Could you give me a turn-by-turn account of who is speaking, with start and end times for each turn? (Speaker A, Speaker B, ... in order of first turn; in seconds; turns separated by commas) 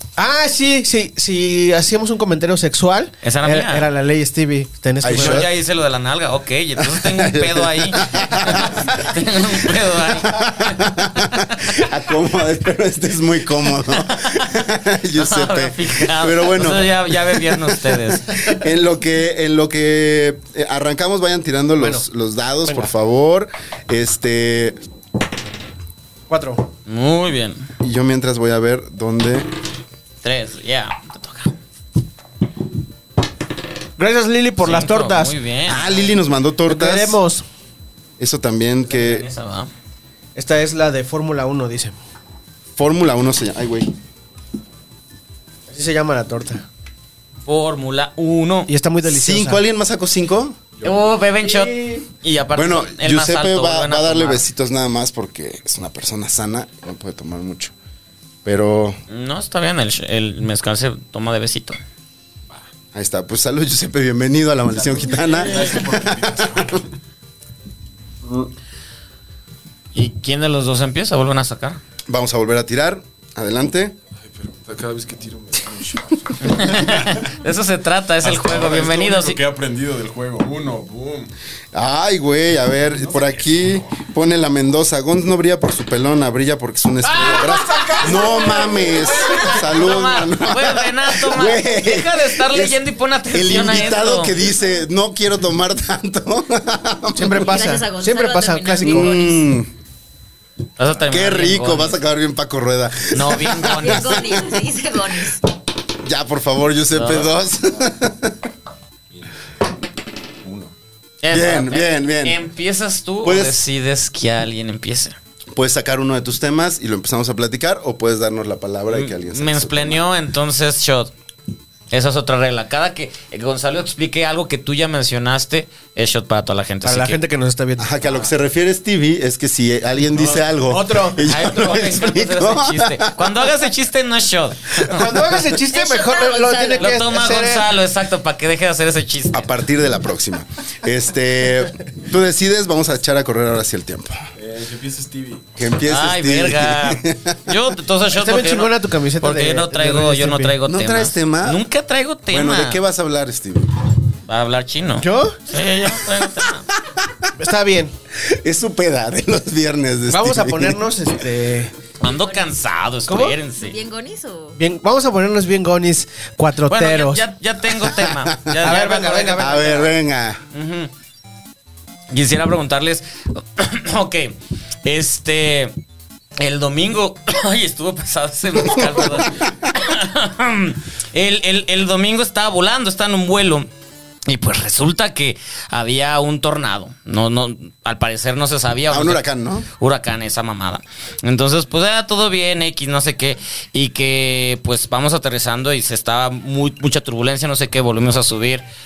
Speaker A: 0.2-5.5, Speaker B: 3.2-3.9, Speaker C: 5.0-5.5, Speaker B: 5.1-10.9, Speaker C: 6.8-24.8, Speaker B: 14.0-14.4, Speaker B: 15.1-18.4, Speaker A: 21.8-22.0, Speaker A: 22.6-22.9, Speaker A: 26.3-26.7, Speaker B: 26.9-27.7, Speaker C: 27.8-29.5, Speaker B: 30.2-31.6, Speaker A: 34.0-35.3, Speaker B: 34.6-36.1, Speaker C: 35.7-37.2, Speaker A: 36.6-37.4, Speaker C: 38.2-39.3, Speaker B: 38.9-39.7, Speaker A: 40.4-42.0, Speaker C: 42.8-43.9, Speaker A: 45.7-46.6, Speaker B: 47.5-48.7, Speaker A: 48.7-49.6, Speaker C: 49.0-50.6, Speaker D: 50.8-51.0, Speaker B: 50.8-54.4, Speaker A: 51.4-52.0, Speaker C: 52.5-57.7, Speaker C: 58.4-59.0, Speaker B: 59.1-61.8, Speaker C: 62.9-66.8, Speaker D: 64.7-67.0, Speaker B: 69.9-71.8, Speaker C: 72.1-73.9, Speaker D: 74.2-77.3, Speaker B: 76.4-79.4, Speaker D: 78.2-81.3, Speaker C: 81.7-97.5, Speaker D: 83.0-83.9, Speaker A: 87.0-89.3, Speaker D: 87.2-89.6, Speaker B: 89.4-94.3, Speaker A: 97.1-99.2, Speaker E: 97.4-99.5, Speaker C: 98.8-99.7, Speaker B: 100.8-102.0, Speaker C: 101.1-104.5, Speaker B: 103.1-104.2, Speaker E: 103.8-105.4, Speaker C: 106.0-108.4, Speaker B: 106.9-107.3, Speaker D: 109.1-109.3, Speaker D: 110.4-110.7, Speaker B: 111.2-115.2, Speaker C: 111.3-112.4, Speaker C: 113.2-113.6, Speaker C: 115.5-120.0, Speaker B: 118.9-121.1, Speaker B: 121.9-127.2, Speaker A: 126.8-128.0, Speaker C: 127.8-133.7, Speaker A: 130.7-131.3, Speaker B: 131.2-135.2, Speaker A: 134.8-137.7, Speaker E: 135.7-137.1, Speaker B: 136.8-139.5, Speaker C: 139.3-144.3, Speaker D: 144.3-145.5, Speaker C: 145.6-147.5, Speaker B: 145.9-152.8, Speaker A: 148.1-150.6, Speaker C: 150.6-151.6, Speaker C: 152.3-153.8, Speaker B: 154.3-156.7, Speaker A: 155.0-155.4, Speaker C: 156.9-157.3, Speaker A: 157.4-157.9, Speaker C: 158.1-161.0, Speaker A: 160.1-161.7, Speaker B: 162.0-163.8, Speaker E: 162.0-162.5, Speaker A: 163.1-163.4, Speaker E: 163.5-164.6, Speaker A: 164.6-167.2, Speaker B: 166.7-169.9, Speaker C: 167.6-168.8, Speaker A: 168.6-169.9, Speaker C: 169.4-170.4, Speaker B: 170.5-170.9, Speaker B: 172.1-175.7, Speaker B: 176.4-183.7, Speaker C: 178.6-179.5, Speaker B: 184.3-189.2, Speaker C: 188.9-189.7, Speaker B: 189.8-198.6